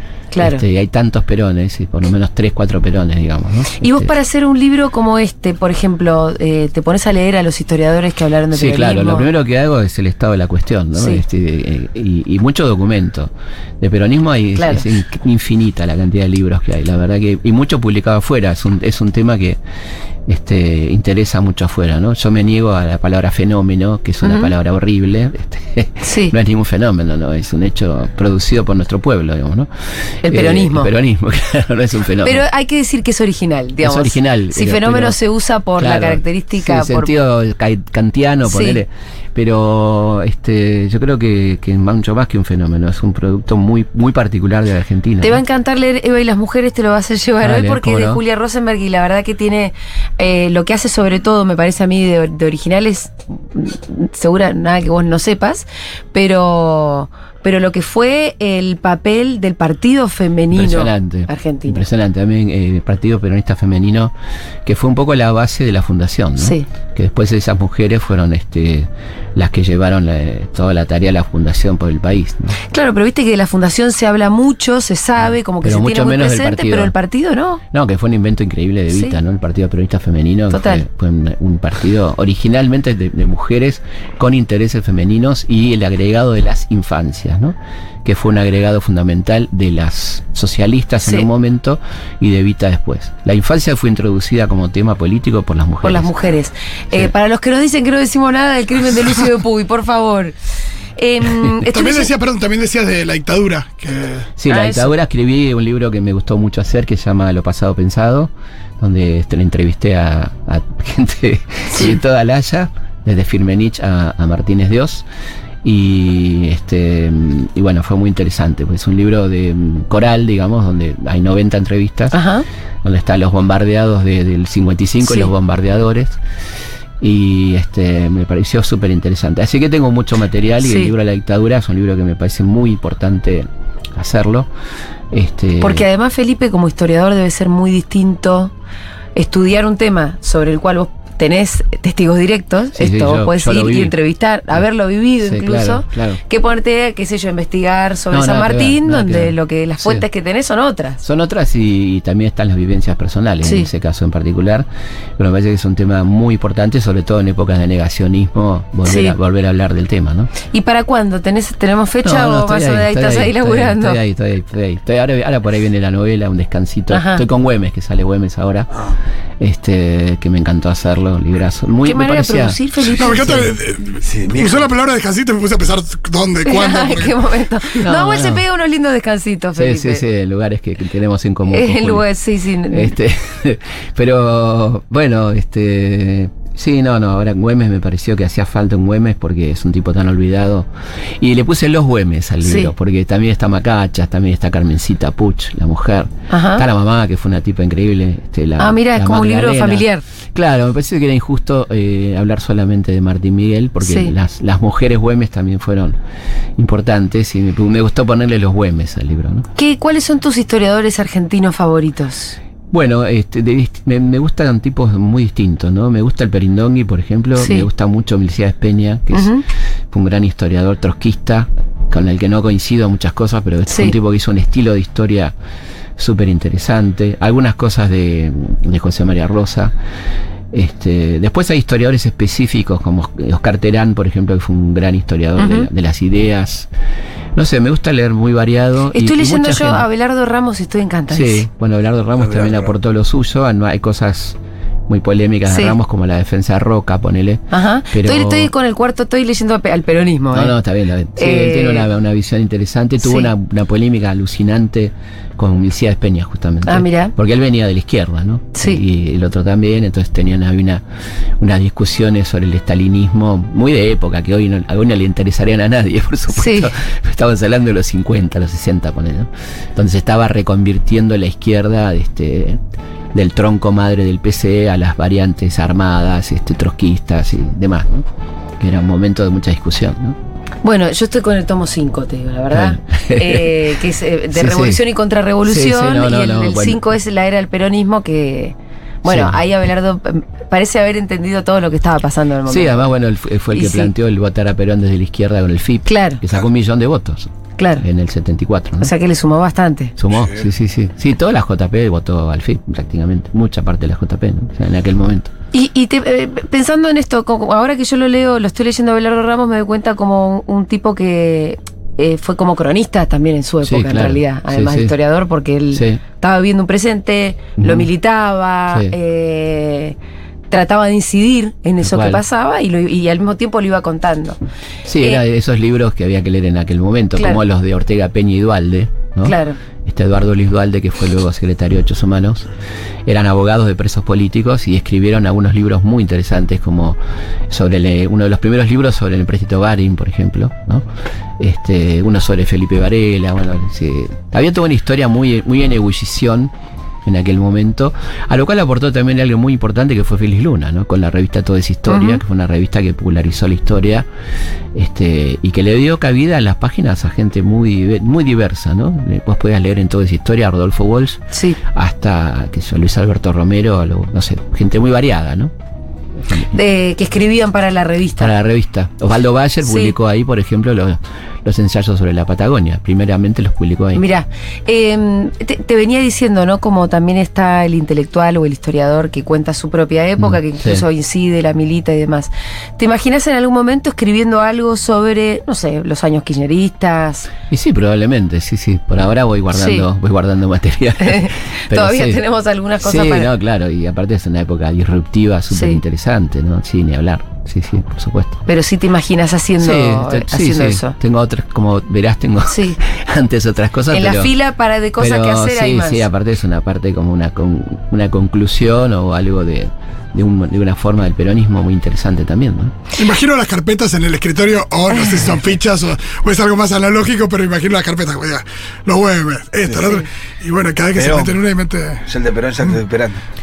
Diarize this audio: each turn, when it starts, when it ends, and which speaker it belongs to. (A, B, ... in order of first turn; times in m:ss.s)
0:00.3-0:00.6 A
0:00.4-0:04.1 B
0:03.8-0:09.3 A
0:08.5-0:19.6 B
0:11.0-0:11.2 A
0:14.6-0:14.9 A
0:20.3-0:29.7 B
0:24.2-0:24.5 A
0:26.0-0:26.3 A
0:30.2-0:30.9 A
0:30.2-0:32.4 B
0:32.2-0:37.1 A
0:33.8-0:35.2 B
0:35.8-0:45.4 B
0:38.5-0:38.8 A
0:45.2-1:01.8 A
0:47.4-0:48.2 B
1:00.5-1:04.1 B
1:04.6-1:12.6 B
1:06.4-1:06.6 A
1:12.7-1:17.6 A
1:15.6-1:16.9 B
1:17.7-1:36.1 B
1:20.5-1:20.8 A
1:35.8-1:40.4 A
1:41.0-1:42.1 A
1:41.7-1:44.3 C
1:44.4-1:55.1 B
1:44.5-1:44.9 A
1:51.7-1:52.0 A
1:55.6-2:02.2 B
2:02.1-2:02.4 A
2:02.8-2:06.2 B
2:05.0-2:05.3 A
2:07.0-2:14.5 B
2:10.6-2:10.9 A
2:15.1-2:15.9 B
2:15.6-2:18.5 A
2:19.2-2:31.0 A
2:22.8-2:23.9 B
2:25.2-2:26.2 B
2:28.1-2:30.1 B
2:31.0-2:40.3 B
2:33.4-2:33.7 A
2:38.8-2:39.2 A
2:40.5-2:44.0 A
2:42.0-2:48.7 B
2:46.9-2:47.2 A
2:49.4-2:52.6 B
2:51.8-2:53.5 A
2:52.9-2:57.2 C
2:54.0-2:54.7 D
2:56.4-3:00.0 A
2:57.8-2:58.4 B
2:59.6-3:02.1 B
3:01.5-3:03.0 A
3:02.7-3:10.7 B
3:11.2-3:26.0 B
3:12.4-3:12.7 A
3:16.3-3:16.6 A
3:18.6-3:20.0 A
3:23.8-3:24.1 A
3:26.6-3:29.5 B
3:29.6-3:32.4 A
3:32.7-3:39.4 B
3:37.4-3:37.7 A
3:39.1-3:39.4 A
3:39.9-3:45.3 B
3:43.7-3:44.0 A
3:46.0-3:49.7 B
3:50.5-3:56.7 B
3:55.4-3:55.7 A
3:57.4-3:59.9 B
3:58.9-4:01.5 A
4:01.1-4:08.5 B
4:02.2-4:02.7 D
4:05.5-4:05.8 A
4:07.5-4:10.6 A
4:10.3-4:20.8 B
4:11.2-4:11.9 A
4:13.0-4:13.3 A
4:16.6-4:17.1 A
4:18.6-4:18.8 A
4:21.4-4:32.6 B
4:26.3-4:26.7 A
4:33.1-4:38.1 B
4:38.6-4:40.2 B
4:40.6-4:52.9 A
4:42.5-4:44.8 B
4:45.4-4:46.8 B
4:49.0-4:49.4 B
4:52.5-4:58.9 B
4:53.5-4:53.9 A
4:55.9-4:56.2 A
4:57.6-4:57.8 A
4:58.8-5:00.0 A
5:00.0-5:05.3 B
5:05.5-5:20.0 A
5:13.6-5:14.9 B
5:15.7-5:16.0 B
5:17.6-5:17.9 B
5:20.5-5:24.4 A
5:21.8-5:22.2 B
5:24.8-5:32.5 B
5:29.2-5:29.6 A
5:33.1-5:37.0 B
5:37.5-5:40.8 B
5:41.4-5:46.5 B
5:47.0-5:54.1 B
5:51.9-5:52.2 A
5:54.7-6:05.5 B
6:01.3-6:01.6 A
6:06.5-6:08.3 A
6:08.2-6:14.0 B
6:09.6-6:09.9 A
6:13.9-6:27.3 A
6:20.2-6:20.9 B
6:27.5-6:32.2 B
6:29.5-6:29.9 A
6:31.0-6:33.3 A
6:32.8-6:38.4 B
6:35.5-6:35.8 A
6:38.5-6:41.0 A
6:39.6-6:44.3 B
6:42.5-6:42.8 A
6:43.9-6:46.1 A
6:45.0-6:52.8 B
6:53.0-7:02.0 C
7:01.0-7:01.4 D
7:02.1-7:03.2 D